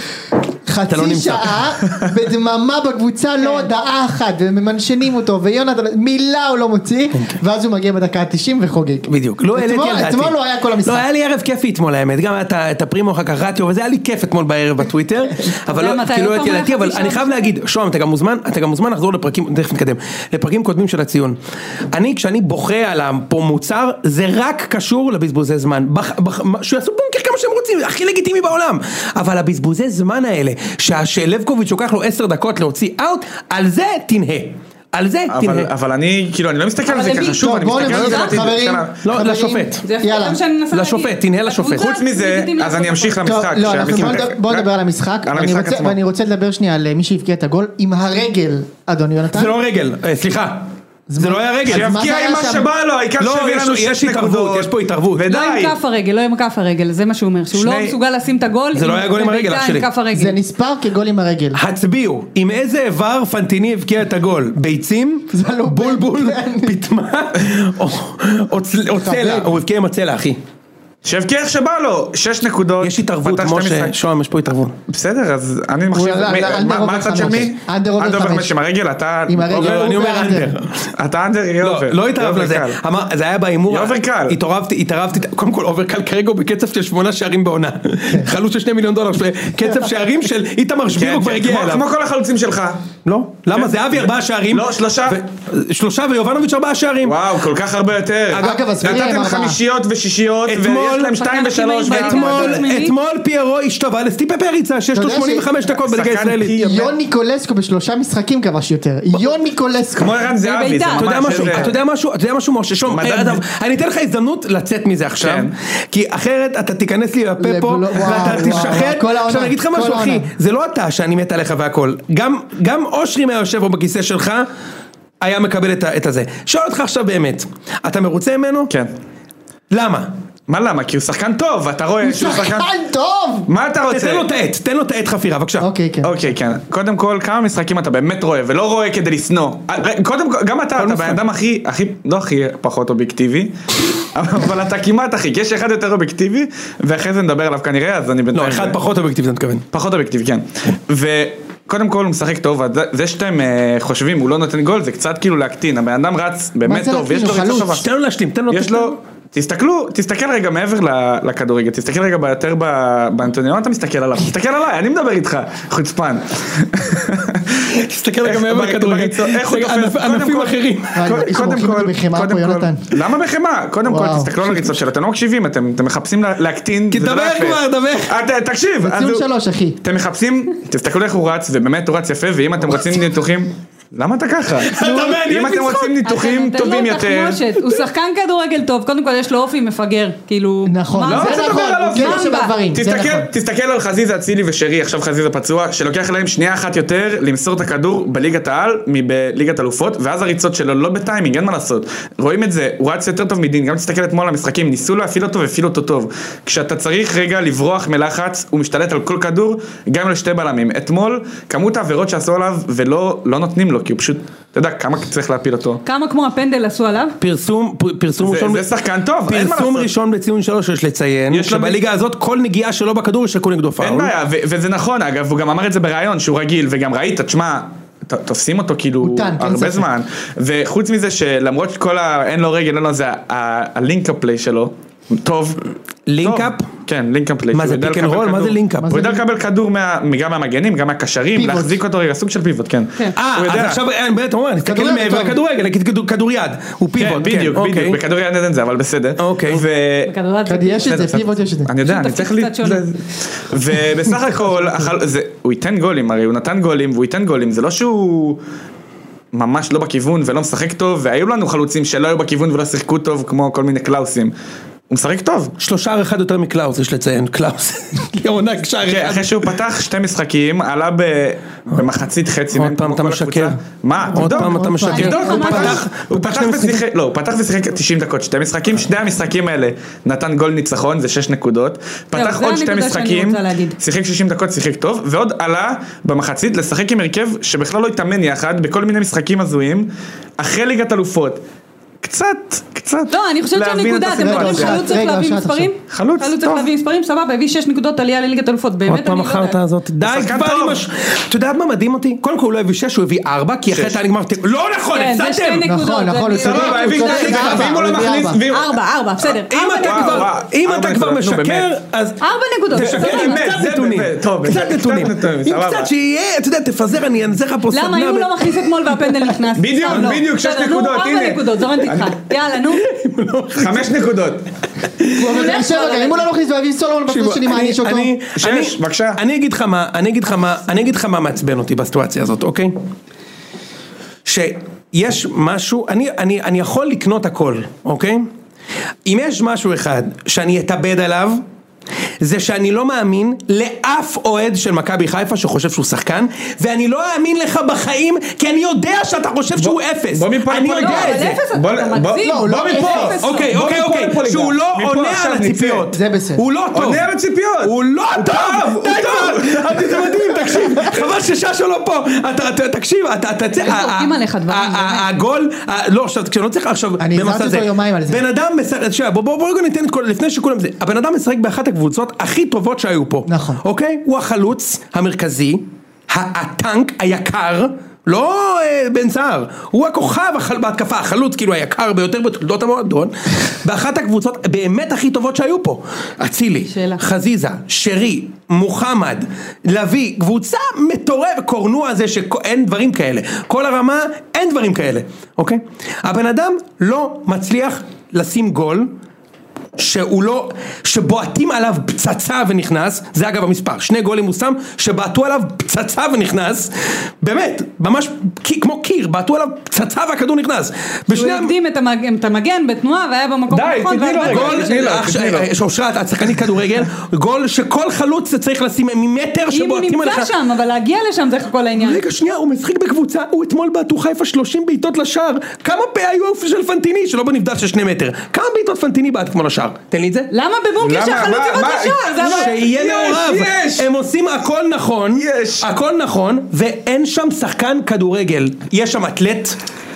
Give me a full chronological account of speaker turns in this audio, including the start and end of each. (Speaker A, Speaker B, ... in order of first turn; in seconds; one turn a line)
Speaker A: 0.7-11.1
Speaker B: 0.9-1.7
Speaker C: 3.4-3.7
Speaker B: 9.1-21.4
Speaker C: 15.7-17.5
Speaker B: 21.9-35.7
Speaker D: 35.3-38.9
Speaker C: 36.9-38.4
Speaker A: 37.3-40.4
Speaker B: 39.0-39.8
Speaker C: 39.8-43.3
Speaker B: 40.7-41.9
Speaker D: 41.8-44.7
Speaker A: 43.2-49.5
Speaker D: 45.3-46.0
Speaker B: 49.3-52.0
Speaker A: 51.1-52.7
Speaker D: 51.7-55.7
Speaker B: 53.2-55.3
Speaker C: 55.3-60.4
Speaker B: 57.5-58.0
Speaker B: 58.7-59.9
Speaker A: 60.1-61.6
Speaker B: 61.5-70.4
Speaker A: 65.3-66.8
Speaker A: 69.0-69.5
Speaker D: 71.0-73.9
Speaker B: 72.8-74.8
Speaker D: 74.9-80.3
Speaker A: 75.9-78.5
Speaker A: 79.3-80.6
Speaker B: 79.5-80.9
Speaker D: 81.0-82.8
Speaker B: 81.6-91.9
Speaker D: 83.7-84.4
Speaker D: 90.9-92.8
Speaker B: 93.0-97.2
Speaker D: 93.5-95.2
Speaker D: 97.0-102.6
Speaker B: 98.3-98.6
Speaker A: 98.4-99.6
Speaker B: 100.5-101.2
Speaker C: 101.2-103.0
Speaker B: 101.9-106.6
Speaker A: 104.9-105.5
Speaker D: 105.8-106.9
Speaker A: 106.6-110.3
Speaker D: 110.0-111.8
Speaker C: 110.4-111.6
Speaker B: 111.0-124.5
Speaker D: 112.9-113.4
Speaker D: 115.2-115.5
Speaker A: 117.4-120.3
Speaker B: 125.2-128.7
Speaker B: 129.7-130.1
Speaker D: 130.5-132.7
Speaker A: 132.0-133.5
Speaker D: 133.5-134.2
Speaker B: 133.9-135.7
Speaker A: 135.6-136.2
Speaker D: 136.0-148.8
Speaker B: 140.8-141.2
Speaker B: 148.3-149.7
Speaker D: 149.7-157.8
Speaker A: 156.7-157.8
Speaker B: 157.6-159.0
Speaker D: 158.5-179.2
Speaker B: 167.7-171.3
Speaker A: 170.9-172.8
Speaker A: 173.9-174.8
Speaker B: 176.9-178.2
Speaker A: 178.8-179.8
Speaker D: 179.8-187.4
Speaker B: 184.6-186.0
Speaker C: 186.1-192.5
Speaker A: 190.7-193.3
Speaker D: 191.1-215.8
Speaker C: 215.8-217.2
Speaker B: 217.2-218.7
Speaker D: 218.2-219.9
Speaker B: 219.3-224.1
Speaker D: 221.3-221.8
Speaker D: 223.8-235.6
Speaker A: 229.0-229.9
Speaker B: 236.1-236.7
Speaker D: 236.2-243.8
Speaker B: 237.5-238.9
Speaker A: 238.8-239.2
Speaker A: 241.3-241.8
Speaker B: 243.2-248.0
Speaker A: 244.6-245.4
Speaker D: 247.0-250.1
Speaker B: 249.2-249.7
Speaker C: 250.1-251.0
Speaker A: 250.5-251.7
Speaker D: 250.8-258.4
Speaker C: 251.8-252.9
Speaker D: 259.3-264.3
Speaker D: 264.9-265.5
Speaker B: 265.6-269.6
Speaker D: 268.9-291.4
Speaker B: 272.5-273.6
Speaker A: 274.1-275.8
Speaker B: 274.1-276.9
Speaker C: 274.9-275.8
Speaker C: 282.1-283.8
Speaker D: 292.0-294.9
Speaker C: 293.1-299.6
Speaker A: 294.2-295.7
Speaker D: 295.9-296.7
Speaker B: 298.9-305.7
Speaker D: 300.0-300.8
Speaker D: 303.7-304.0
Speaker C: 304.9-307.7
Speaker A: 305.6-308.4
Speaker D: 306.4-308.8
Speaker B: 306.7-307.8
Speaker C: 308.5-310.3
Speaker B: 309.5-318.6
Speaker D: 309.8-311.7
Speaker C: 312.2-313.5
Speaker D: 312.8-315.9
Speaker C: 317.7-322.9
Speaker D: 319.6-322.1
Speaker B: 319.9-320.2
Speaker B: 322.6-324.0
Speaker D: 323.5-324.4
Speaker B: 325.0-325.5
Speaker A: 325.1-328.1
Speaker C: 325.3-326.3
Speaker B: 327.1-332.8
Speaker D: 328.4-329.2
Speaker B: 334.2-338.3
Speaker B: 339.1-341.4
Speaker B: 342.2-351.4
Speaker D: 349.6-355.9
Speaker C: 350.8-353.5
Speaker A: 352.2-353.2
Speaker B: 353.1-357.1
Speaker A: 355.9-356.4
Speaker D: 356.7-360.7
Speaker B: 357.6-398.9
Speaker C: 363.5-365.1
Speaker A: 367.0-368.2
Speaker A: 373.3-373.6
Speaker C: 386.7-387.0
Speaker B: 399.8-411.6
Speaker C: 411.1-415.0
Speaker D: 413.5-415.5
Speaker B: 414.2-420.3
Speaker C: 419.5-422.0
Speaker B: 421.8-430.3
Speaker C: 430.3-432.6
Speaker D: 430.8-433.9
Speaker B: 432.2-439.6
Speaker D: 435.2-435.7